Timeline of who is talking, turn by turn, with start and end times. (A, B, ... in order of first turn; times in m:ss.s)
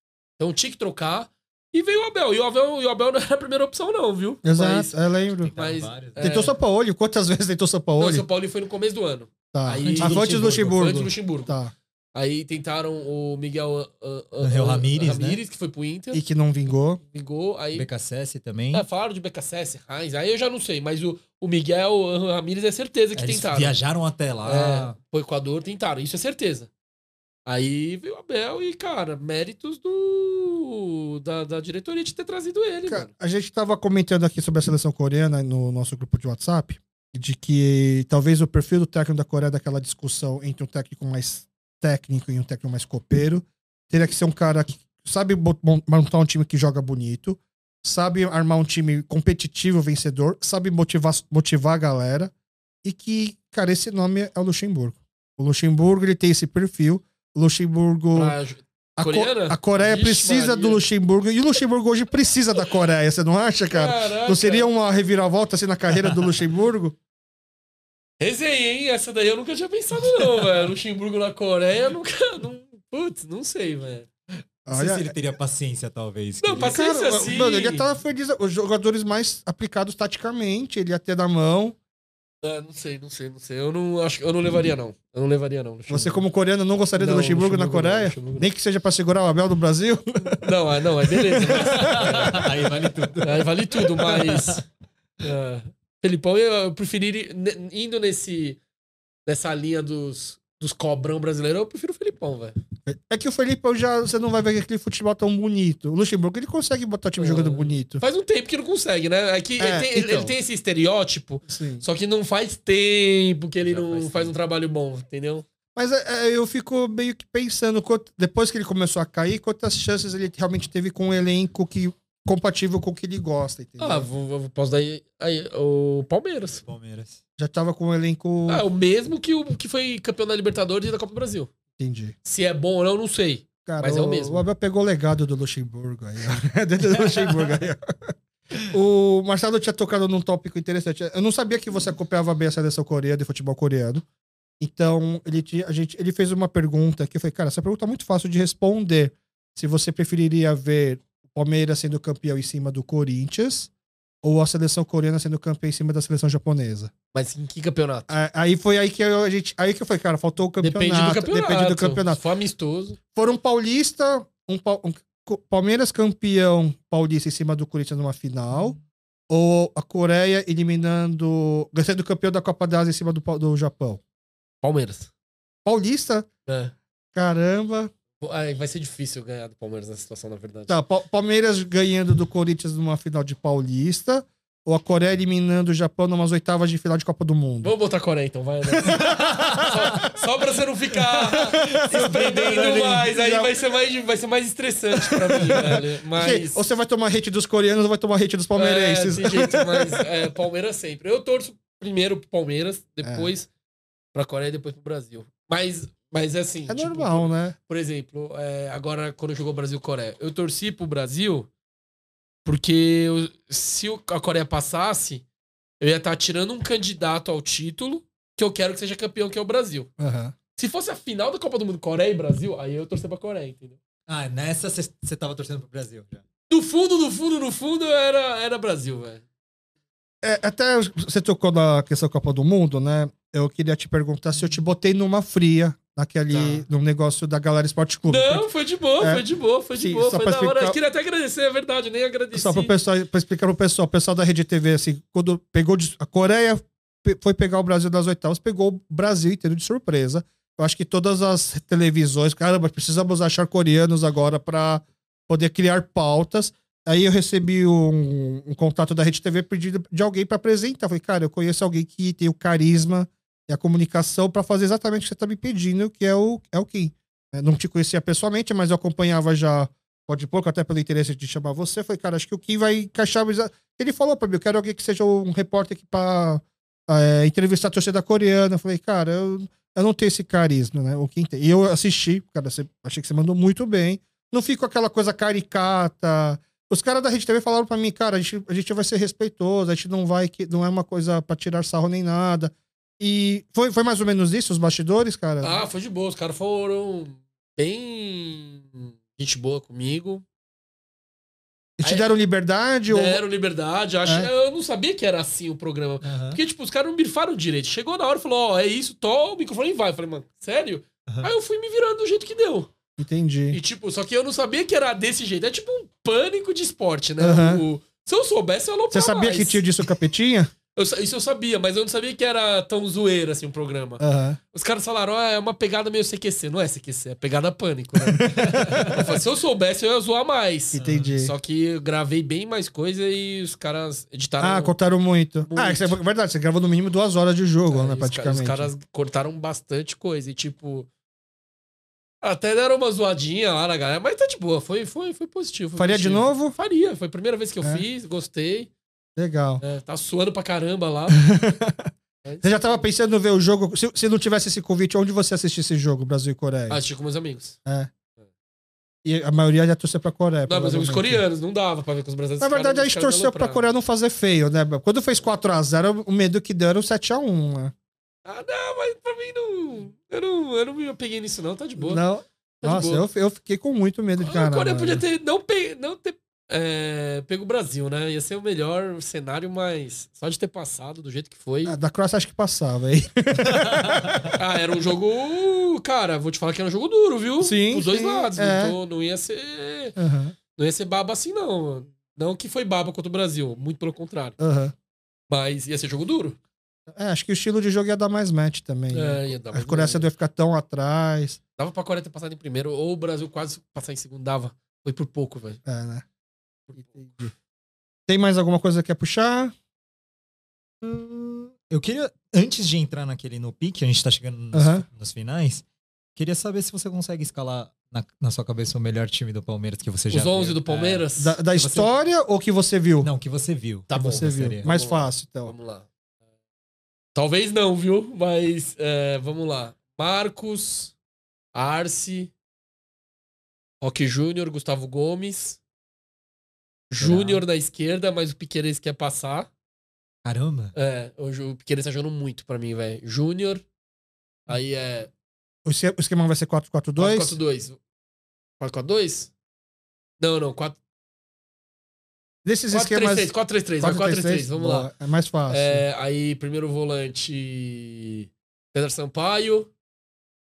0:00.4-0:05.0 A
0:04.4-0:05.5 B
0:05.4-0:06.5 C
0:05.5-0:06.6 A
0:06.1-0:08.3 B
0:08.0-0:11.5 A
0:09.5-0:11.7 B
0:09.7-0:10.6 C
0:12.1-0:16.2 A
0:14.4-0:15.4 C
0:16.1-0:17.0 B
0:17.0-0:17.9 A
0:17.7-0:18.9 C
0:18.7-0:23.8 A
0:23.2-0:25.0 C
0:24.4-0:26.7 A
0:27.5-0:33.1 A
0:32.9-0:52.3 B
0:52.8-0:58.4 B
0:58.1-1:00.8 A
0:59.0-1:07.0 B
1:03.7-1:04.7 A
1:08.2-1:14.1 A
1:14.7-1:15.1 B
1:14.7-1:16.7 C
1:16.4-1:17.9 A
1:16.5-1:21.8 B
1:22.4-1:26.2 A
1:25.9-1:30.5 B
1:27.0-1:28.5 A
1:30.2-1:32.5 A
1:31.0-1:32.3 B
1:31.5-1:34.6 C
1:33.2-1:34.6 A
1:35.2-1:38.6 A
1:39.3-1:42.6 A
1:42.9-1:48.0 B
1:47.2-1:55.4 A
1:49.6-1:50.3 B
1:51.5-1:51.8 B
1:53.6-1:54.3 C
1:55.8-2:04.1 B
2:03.8-2:06.6 A
2:06.6-2:07.2 C
2:07.4-2:08.6 B
2:08.5-2:11.5 A
2:11.8-2:12.2 B
2:12.2-2:14.4 A
2:13.7-2:17.8 B
2:17.0-2:17.5 C
2:18.6-2:24.0 B
2:24.6-2:33.7 B
2:34.2-2:36.9 B
2:37.1-2:38.1 A
2:38.1-2:42.2 B
2:40.6-2:43.0 A
2:43.2-2:54.0 B
2:54.6-2:55.1 A
2:55.6-2:56.3 B
2:56.5-2:56.7 A
2:57.1-2:57.9 B
2:58.2-3:00.7 A
3:00.7-3:07.7 B
3:07.6-3:16.6 A
3:08.8-3:10.1 B
3:09.3-3:09.7 C
3:11.3-3:13.6 B
3:11.9-3:13.1 C
3:15.0-3:20.0 B
3:18.5-3:23.5 A
3:23.0-3:23.3 B
3:24.1-3:31.5 A
3:26.7-3:27.6 B
3:32.4-3:35.2 A
3:35.8-3:39.9 A
3:40.0-3:40.4 B
3:40.6-3:43.8 A
3:44.1-3:46.2 C
3:46.5-3:49.2 A
3:50.2-3:58.5 B
3:56.3-3:56.7 A
3:58.1-4:02.7 A
3:59.0-4:00.8 B
4:02.3-4:55.6 B
4:55.4-5:00.2 A
5:01.8-5:03.2 B
5:01.8-5:02.1 A
5:02.9-5:12.7 A
5:06.0-5:06.4 C
5:13.0-5:13.6 B
5:13.5-5:19.6 A
5:17.2-5:17.6 B
5:18.9-5:20.5 B
5:20.8-5:34.8 A
5:24.0-5:24.4 B
5:28.2-5:29.0 B
5:28.4-5:28.9 C
5:30.7-5:31.3 B
5:30.8-5:31.1 C
5:34.4-5:38.7 B
5:35.5-5:36.0 A
5:37.7-5:40.9 A
5:42.2-5:48.7 A
5:45.8-5:46.6 B
5:49.2-5:49.6 B
5:49.6-5:51.2 A
5:51.1-5:51.9 B
5:52.2-5:52.8 A
5:52.4-5:56.8 B
5:56.7-5:57.6 A
5:59.0-6:01.2 B
6:00.5-6:03.6 A
6:02.4-6:07.7 B
6:08.2-6:12.0 A
6:11.8-6:15.0 B
6:12.6-6:13.0 A
6:14.2-6:21.8 A
6:21.6-6:24.4 B
6:23.5-6:24.3 C
6:24.3-6:30.0 A
6:27.4-6:28.8 B
6:30.0-6:30.4 B
6:30.5-6:34.4 A
6:34.4-6:34.7 B
6:35.3-6:36.4 A
6:36.9-6:41.4 B
6:38.9-6:40.1 A
6:41.6-6:45.6 A
6:45.7-6:46.0 B
6:46.7-6:47.2 A
6:46.9-6:47.3 B
6:48.1-6:49.5 B
6:50.8-6:55.6 C
6:54.5-6:54.8 B
6:56.2-7:01.9 C
7:00.1-7:01.4 A
7:01.2-7:03.1 B
7:03.0-7:04.7 C
7:03.9-7:05.9 A
7:03.9-7:05.6 B
7:07.2-7:10.9 A
7:11.5-7:12.3 A
7:13.8-7:15.6 A
7:16.9-7:19.5 A
7:17.0-7:17.4 C
7:20.2-7:20.7 C
7:20.8-7:23.6 A
7:24.5-7:25.1 A
7:25.6-7:27.4 B
7:27.0-7:27.8 A
7:28.6-7:29.3 A
7:30.2-7:30.8 A
7:32.4-7:35.8 B
7:32.7-7:34.9 A
7:35.5-7:39.7 A